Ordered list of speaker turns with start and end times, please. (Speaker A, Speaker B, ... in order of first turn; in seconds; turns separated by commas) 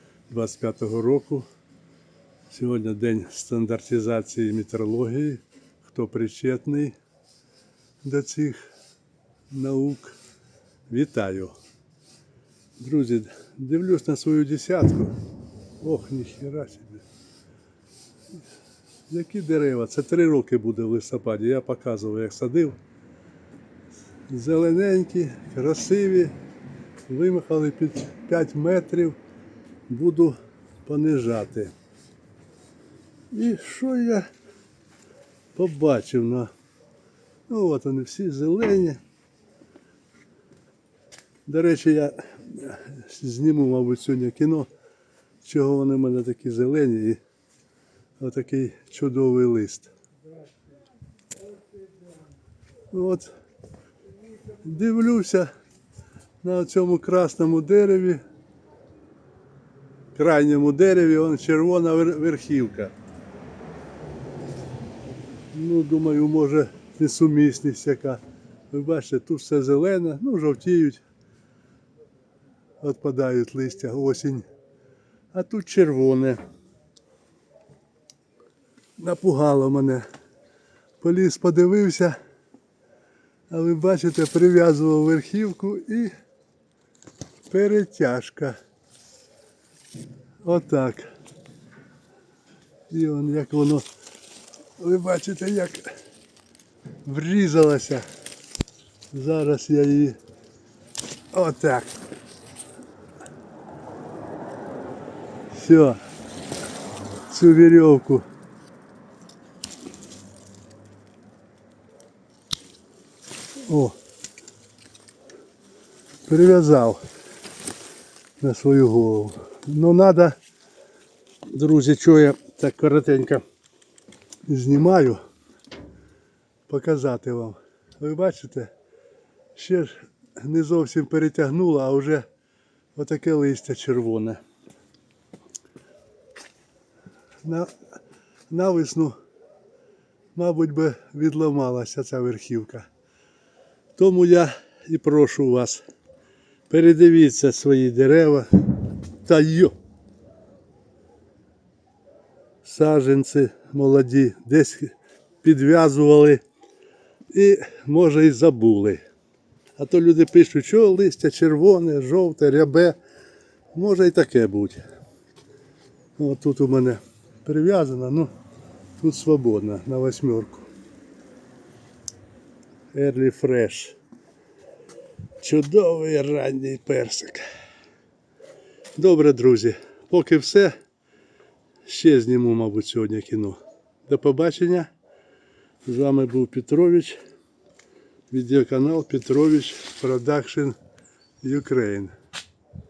Speaker A: 0.3-1.5, Speaker A: 2.5-6.9, Speaker A: 8.0-8.6, Speaker A: 9.5-10.1, Speaker A: 10.9-11.5, Speaker A: 12.8-15.1, Speaker A: 15.8-17.0, Speaker A: 19.1-22.8, Speaker A: 24.3-26.3, Speaker A: 27.1-29.2, Speaker A: 29.9-31.7, Speaker A: 33.3-34.3, Speaker A: 35.5-36.5, Speaker A: 37.5-39.0, Speaker A: 41.5-44.7, Speaker A: 45.4-47.2, Speaker A: 48.2-49.9, Speaker A: 52.9-53.3, Speaker A: 54.6-55.5, Speaker A: 56.4-58.2, Speaker A: 60.1-62.9, Speaker A: 65.5-71.0, Speaker A: 72.8-74.5, Speaker A: 75.3-76.4, Speaker A: 79.0-80.0, Speaker A: 81.0-82.2, Speaker A: 83.5-86.1, Speaker A: 87.5-88.5, Speaker A: 90.4-91.1, Speaker A: 92.9-93.8, Speaker A: 94.8-95.9, Speaker A: 97.0-98.0, Speaker A: 99.1-100.2, Speaker A: 101.3-101.9, Speaker A: 105.5-106.0, Speaker A: 107.3-108.2, Speaker A: 113.7-114.0, Speaker A: 116.3-117.0, Speaker A: 118.4-120.4, Speaker A: 121.5-123.4, Speaker A: 124.5-125.2, Speaker A: 126.7-128.7, Speaker A: 129.6-132.2, Speaker A: 132.9-134.4, Speaker A: 137.4-137.7, Speaker A: 138.5-139.2, Speaker A: 140.3-142.9, Speaker A: 144.0-145.8, Speaker A: 146.7-148.6, Speaker A: 149.2-149.7, Speaker A: 152.6-156.4, Speaker A: 157.3-159.0, Speaker A: 159.8-163.0, Speaker A: 163.7-164.8, Speaker A: 166.2-168.3, Speaker A: 169.0-170.7, Speaker A: 172.9-173.9, Speaker A: 175.4-177.4, Speaker A: 178.9-180.7, Speaker A: 181.8-184.9, Speaker A: 185.8-187.2, Speaker A: 188.3-190.8, Speaker A: 191.4-192.1